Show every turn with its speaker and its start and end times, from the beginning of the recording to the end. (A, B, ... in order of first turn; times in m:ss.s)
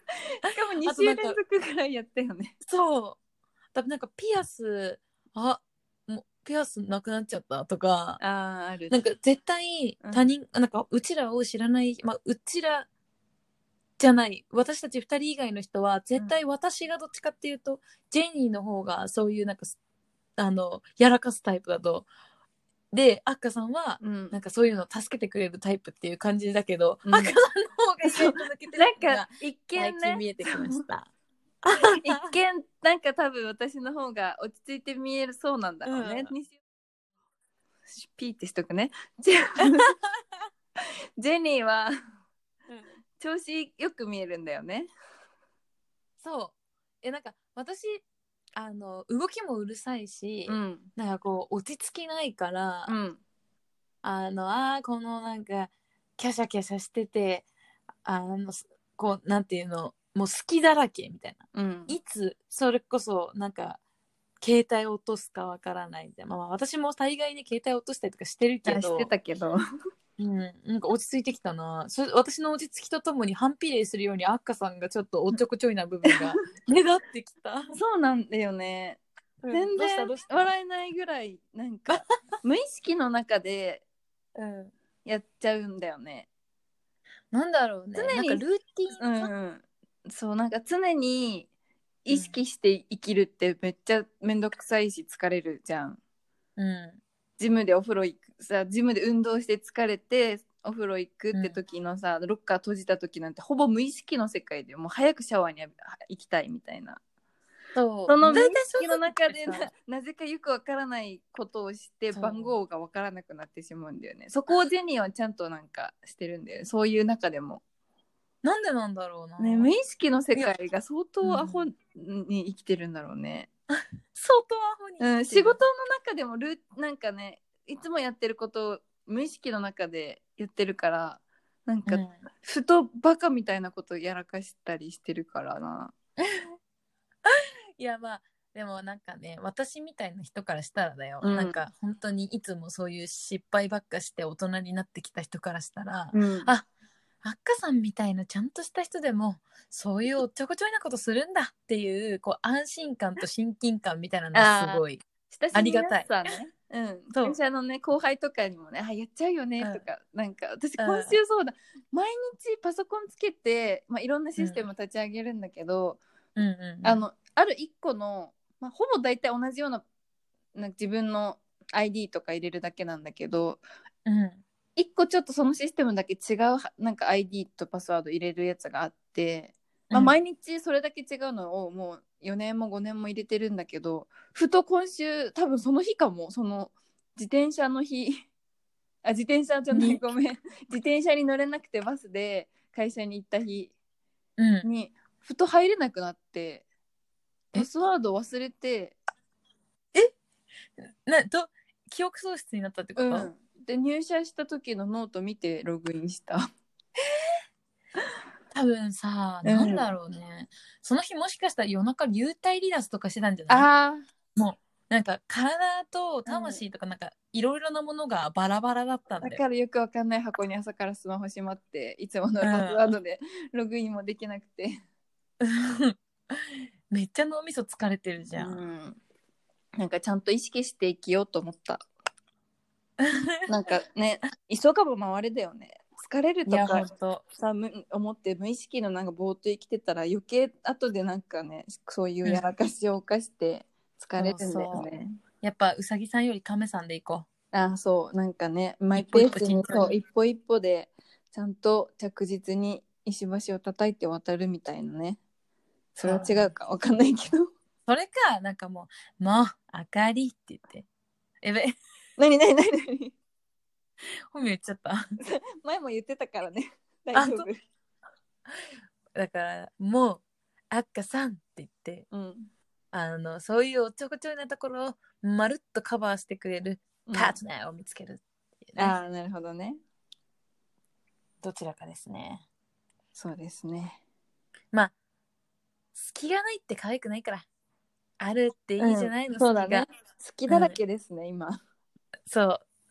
0:00.3-0:02.6 A
0:00.8-0:01.4 B
0:02.6-0:03.2 B
0:03.7-0:08.2 B
0:08.2-0:09.0 A
0:08.9-0:12.9 B
0:14.0-0:19.7 B
0:20.4-0:22.1 B
0:22.9-0:31.1 B
0:24.0-0:24.4 A
0:27.1-0:27.4 A
0:28.0-0:30.8 A
0:31.6-0:32.3 B
0:32.0-0:36.6 A
0:35.9-0:36.3 B
0:37.9-0:40.0 A
0:41.2-0:41.9 A
0:43.2-0:44.9 A
0:46.2-0:48.0 B
0:48.6-0:52.9 B
0:50.5-0:50.9 A
0:52.9-0:53.2 A
0:54.0-0:57.4 B
0:58.0-1:03.8 B
1:01.5-1:02.0 A
1:04.4-1:09.1 B
1:08.6-1:09.6 A
1:10.2-1:17.7 B
1:17.7-1:23.8 A
1:19.4-1:20.5 B
1:24.4-1:24.7 B
1:25.0-1:26.3 A
1:27.3-1:29.3 B
1:28.0-1:28.4 A
1:29.0-1:31.5 A
1:32.0-1:36.0 A
1:32.1-1:32.4 B
1:36.6-1:37.0 B
1:37.4-1:47.0 A
1:41.3-1:41.6 B
1:47.8-1:49.7 B
1:48.1-1:57.6 A
1:52.1-1:52.5 B
1:58.4-1:59.7 B
1:59.4-2:03.5 A
2:01.2-2:01.7 B
2:04.1-2:05.6 B
2:05.0-2:15.9 A
2:11.9-2:12.2 B
2:17.3-2:26.7 B
2:21.2-2:21.6 A
2:26.1-2:26.5 A
2:27.2-2:36.1 B
2:34.3-2:46.0 A
2:40.8-2:41.2 B
2:46.4-2:47.0 B
2:46.8-2:49.8 A
2:50.6-2:53.6 A
2:54.1-2:54.4 B
2:54.8-3:08.2 A
2:59.9-3:00.2 B
3:09.0-3:13.7 A
3:09.7-3:10.0 B
3:14.4-3:14.7 B
3:14.6-3:16.6 A
3:17.5-3:19.0 A
3:20.8-3:23.3 B
3:23.0-3:26.4 A
3:28.5-3:33.7 B
3:29.4-3:29.8 A
3:33.5-3:34.0 A
3:34.4-3:39.4 B
3:36.3-3:36.6 A
3:39.2-3:44.8 A
3:42.4-3:42.8 B
3:45.4-3:48.6 B
3:48.4-3:49.0 A
3:49.8-3:51.9 A
3:53.0-3:53.4 B
3:53.5-4:05.2 A
3:56.5-3:57.2 B
4:04.2-4:04.9 B
4:05.4-4:07.3 B
4:07.5-4:15.2 A
4:09.0-4:09.9 B
4:16.0-4:17.5 A
4:16.0-4:16.5 B
4:17.9-4:20.9 B
4:21.4-4:21.8 B
4:22.2-4:23.2 A
4:24.3-4:25.0 B
4:25.2-4:27.6 A
4:27.1-4:27.5 B
4:29.2-4:32.1 B
4:32.1-4:32.5 A
4:32.9-4:39.0 B
4:37.1-4:37.4 A
4:38.8-4:39.8 A
4:41.4-4:42.4 B
4:43.2-4:44.0 A
4:46.0-4:47.5 B
4:48.2-4:49.9 B
4:48.8-4:51.6 A
4:50.5-4:50.8 B
4:52.3-4:52.6 B